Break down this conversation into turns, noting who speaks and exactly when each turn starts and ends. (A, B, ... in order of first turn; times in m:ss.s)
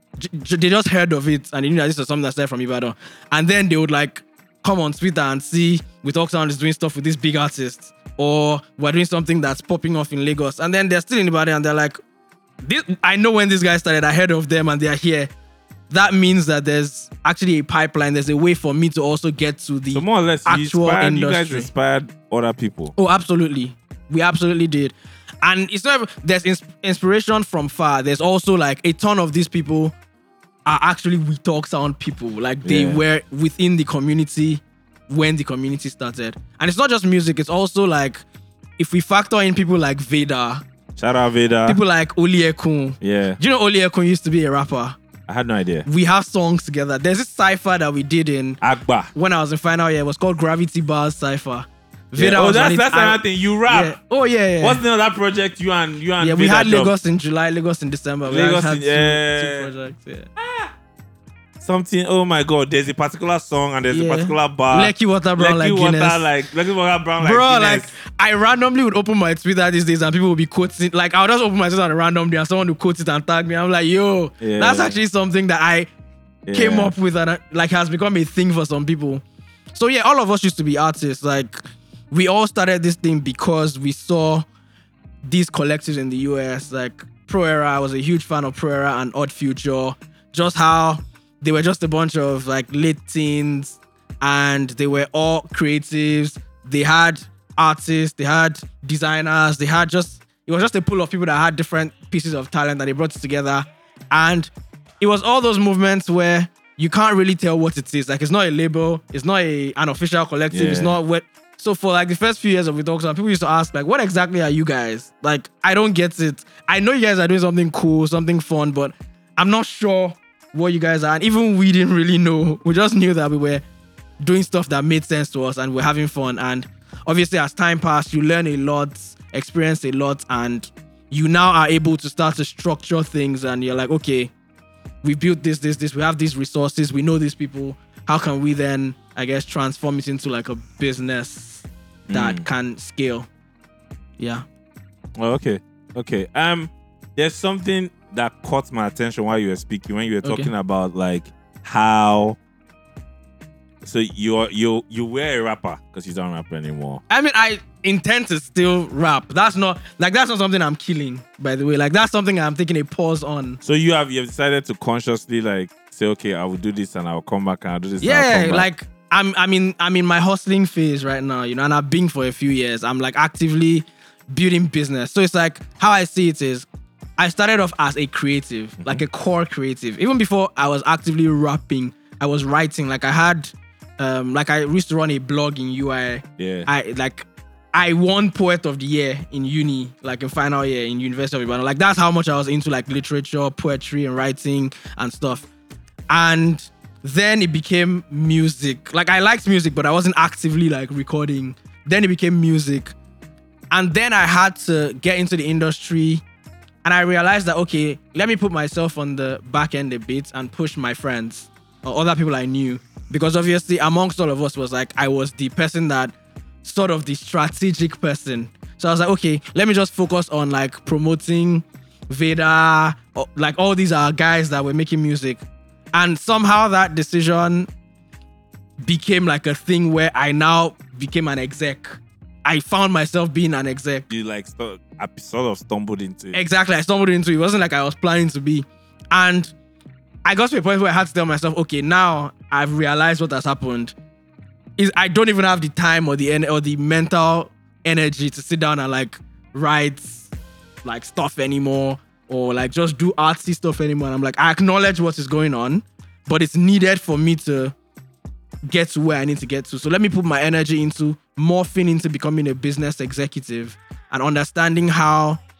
0:00.2-0:12.0 A
0:12.6-0:15.3 A
0:15.9-0:21.7 A
0:19.9-0:22.9 B
0:22.9-0:29.9 A
0:30.6-0:38.2 A
0:32.6-0:33.0 B
0:38.8-0:40.6 A
0:41.0-0:41.8 B
0:41.6-0:45.0 A
0:43.0-0:43.4 B
0:45.3-0:45.9 B
0:45.8-0:48.6 A
0:48.6-0:49.1 B
0:49.1-0:54.8 A
0:52.2-0:54.0 B
0:54.6-0:56.9 B
0:56.2-1:00.3 A
0:58.2-0:59.7 B
1:00.4-1:00.7 B
1:01.6-1:07.9 B
1:03.9-1:06.3 A
1:07.2-1:15.9 A
1:14.4-1:15.0 B
1:16.4-1:16.9 B
1:16.5-1:19.2 A
1:19.7-1:24.4 A
1:25.2-2:03.6 A
1:50.5-1:50.9 B
2:04.2-2:14.3 A
2:15.0-2:23.3 A
2:22.1-2:22.4 B
2:24.2-2:24.4 A
2:25.2-2:32.4 B
2:30.2-2:30.5 A
2:33.8-2:37.0 B
2:37.1-2:43.6 A
2:43.6-2:48.7 B
2:48.0-3:15.5 A
3:06.4-3:06.7 B
3:16.1-3:22.9 A
3:23.7-3:26.2 A
3:26.8-3:36.1 A
3:36.6-3:45.4 A
3:45.9-3:47.7 A
3:48.8-3:54.1 A
3:54.1-3:56.4 B
3:56.3-3:59.5 A
4:00.2-4:03.9 A
4:04.8-4:10.3 A
4:10.8-4:17.7 A
4:18.6-4:25.4 A